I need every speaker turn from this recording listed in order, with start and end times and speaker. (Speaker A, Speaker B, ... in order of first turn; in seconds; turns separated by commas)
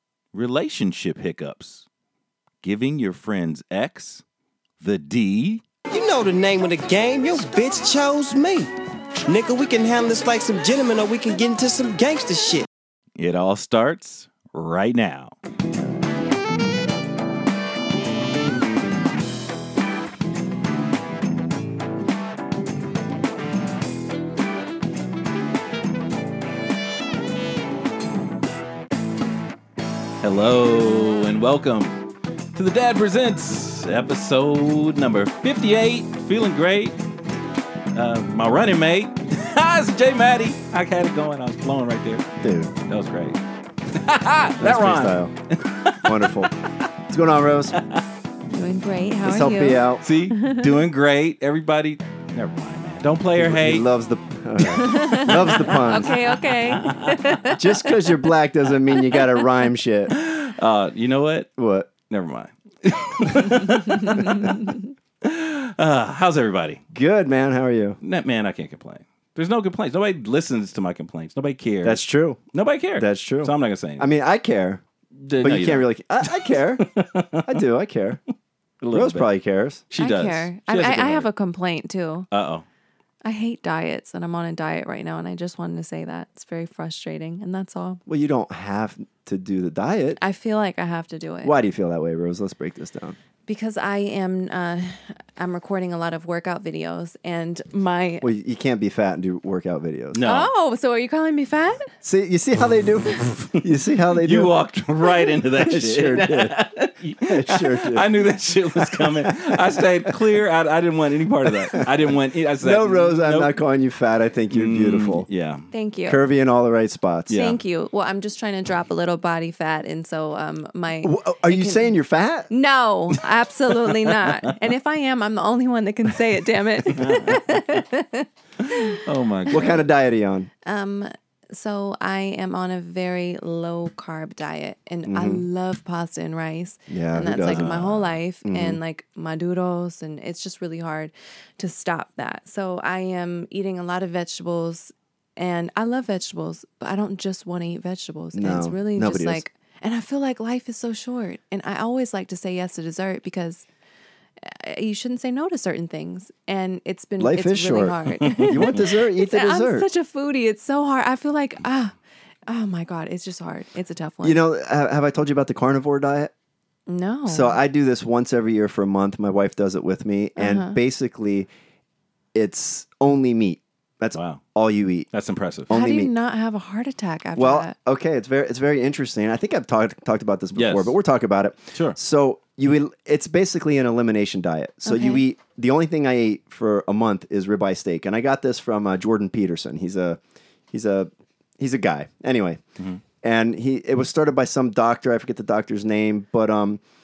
Speaker A: 0.3-1.9, Speaker A: 2.6-4.2, Speaker A: 4.8-5.6, Speaker B: 5.9-8.7, Speaker B: 9.2-12.7, Speaker A: 13.2-15.3, Speaker A: 30.2-37.0, Speaker A: 37.9-42.3, Speaker C: 42.4-42.7, Speaker A: 42.8-43.4, Speaker A: 43.9-46.5, Speaker C: 44.6-45.3, Speaker C: 46.0-46.5, Speaker C: 47.1-47.7, Speaker A: 47.7-48.0, Speaker D: 48.5-50.7, Speaker C: 49.2-50.0, Speaker A: 50.0-53.9, Speaker C: 53.4-56.1, Speaker A: 54.6-57.4, Speaker D: 54.7-58.3, Speaker C: 57.5-60.1, Speaker D: 59.0-59.4, Speaker A: 60.1-61.5, Speaker C: 61.6-61.9, Speaker A: 62.1-64.6, Speaker D: 63.9-64.8, Speaker A: 65.2-66.8, Speaker C: 66.9-68.0, Speaker A: 68.0-74.1, Speaker C: 71.8-72.4, Speaker C: 73.0-74.8, Speaker A: 75.2-77.6, Speaker C: 75.4-76.9, Speaker C: 77.5-78.2, Speaker A: 78.8-79.3, Speaker C: 78.9-79.8, Speaker A: 79.9-81.3, Speaker D: 80.0-82.3, Speaker A: 82.3-82.7, Speaker D: 83.2-88.0, Speaker C: 88.1-90.2, Speaker D: 90.2-91.5, Speaker C: 91.4-93.2, Speaker D: 93.5-98.3, Speaker C: 98.2-100.2, Speaker A: 100.1-100.5, Speaker D: 100.2-101.9, Speaker C: 102.0-104.5, Speaker A: 104.1-113.6, Speaker C: 105.6-106.6, Speaker C: 107.2-108.1, Speaker C: 108.8-110.1, Speaker C: 111.5-111.8, Speaker C: 112.6-115.3, Speaker A: 114.5-115.7, Speaker D: 115.7-116.2, Speaker C: 116.1-117.4, Speaker A: 117.3-117.6, Speaker D: 117.3-122.0, Speaker C: 121.0-122.5, Speaker D: 122.5-129.0, Speaker A: 123.8-124.5, Speaker A: 126.9-127.8, Speaker A: 128.6-129.8, Speaker C: 129.5-130.5, Speaker D: 130.7-153.7, Speaker C: 135.1-135.4, Speaker C: 136.9-137.8, Speaker A: 137.4-138.0, Speaker C: 138.4-138.8, Speaker C: 148.3-149.4, Speaker D: 154.4-161.9, Speaker C: 157.2-159.9, Speaker D: 162.5-164.4, Speaker C: 164.2-166.3, Speaker D: 166.9-167.6, Speaker C: 167.3-171.5, Speaker D: 170.4-170.8, Speaker C: 172.3-175.1, Speaker A: 174.2-174.4, Speaker A: 175.1-175.7, Speaker C: 175.7-176.1, Speaker D: 175.7-177.7, Speaker C: 177.4-190.2, Speaker A: 180.6-180.9, Speaker D: 184.9-185.2, Speaker C: 190.7-192.6, Speaker C: 193.2-196.8